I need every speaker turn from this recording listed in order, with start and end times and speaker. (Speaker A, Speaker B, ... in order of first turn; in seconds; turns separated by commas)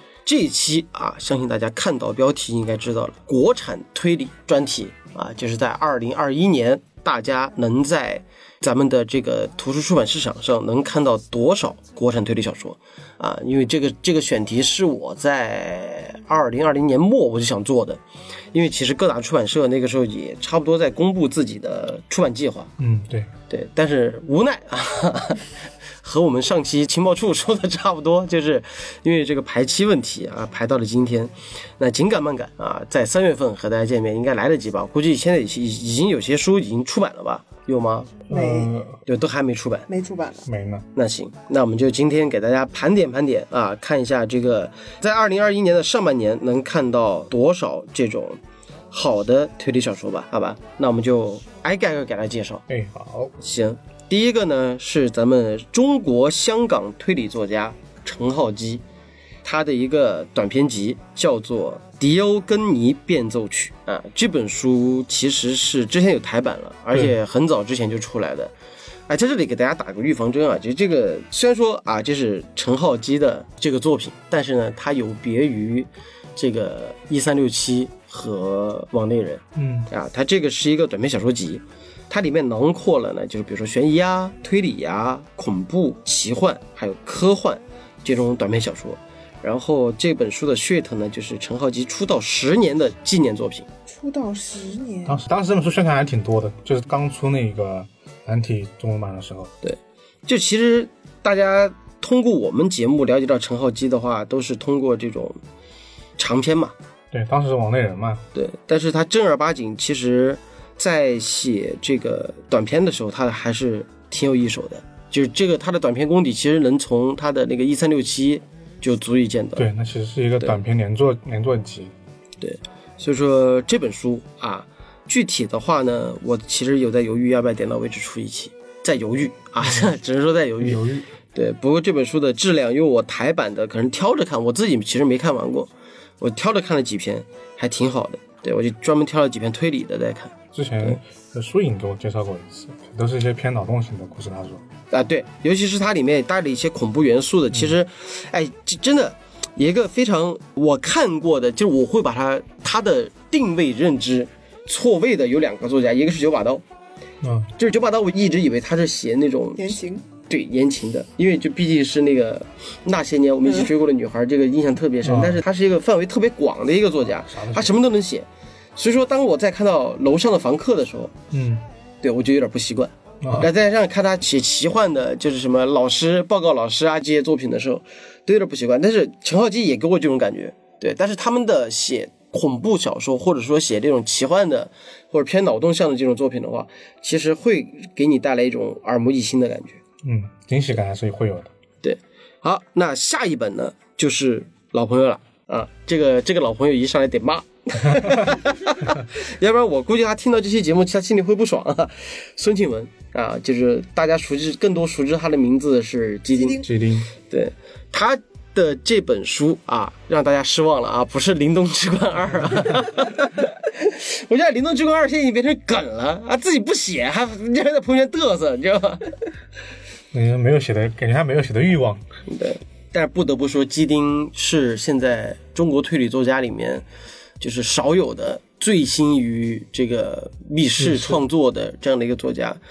Speaker A: 0.3-18.0, Speaker A: 18.5-22.7, Speaker B: 22.8-23.3, Speaker A: 23.5-25.5, Speaker A: 26.0-38.1, Speaker B: 38.3-39.0, Speaker C: 38.3-38.7, Speaker A: 39.1-39.9, Speaker C: 39.9-40.5, Speaker B: 40.5-40.9, Speaker A: 41.0-48.4, Speaker A: 48.9-52.6, Speaker B: 52.7-53.4, Speaker A: 53.4-58.8, Speaker A: 59.4-68.5, Speaker A: 69.1-93.7, Speaker B: 79.5-79.9, Speaker C: 93.9-95.2, Speaker B: 95.0-99.5, Speaker A: 99.6-105.4, Speaker A: 106.2-106.7, Speaker B: 107.1-108.2, Speaker A: 108.3-119.7, Speaker B: 119.6-121.9, Speaker A: 122.4-135.7, Speaker B: 129.6-129.9, Speaker B: 130.6-131.1, Speaker A: 136.2-141.0, Speaker B: 140.5-144.6, Speaker A: 144.9-156.6, Speaker B: 157.2-157.5, Speaker A: 157.6-159.8, Speaker C: 159.6-160.1, Speaker A: 160.3-171.1, Speaker B: 165.0-165.4, Speaker B: 167.1-167.8, Speaker B: 171.3-171.6, Speaker A: 172.0-189.8, Speaker B: 173.2-173.5, Speaker B: 190.0-191.5, Speaker A: 191.8-206.6, Speaker B: 197.9-198.3, Speaker C: 206.3-206.7, Speaker B: 206.6-207.1, Speaker A: 207.3-219.2, Speaker B: 220.1-222.1, Speaker A: 222.3-226.8, Speaker A: 227.4-232.6, Speaker B: 230.8-231.2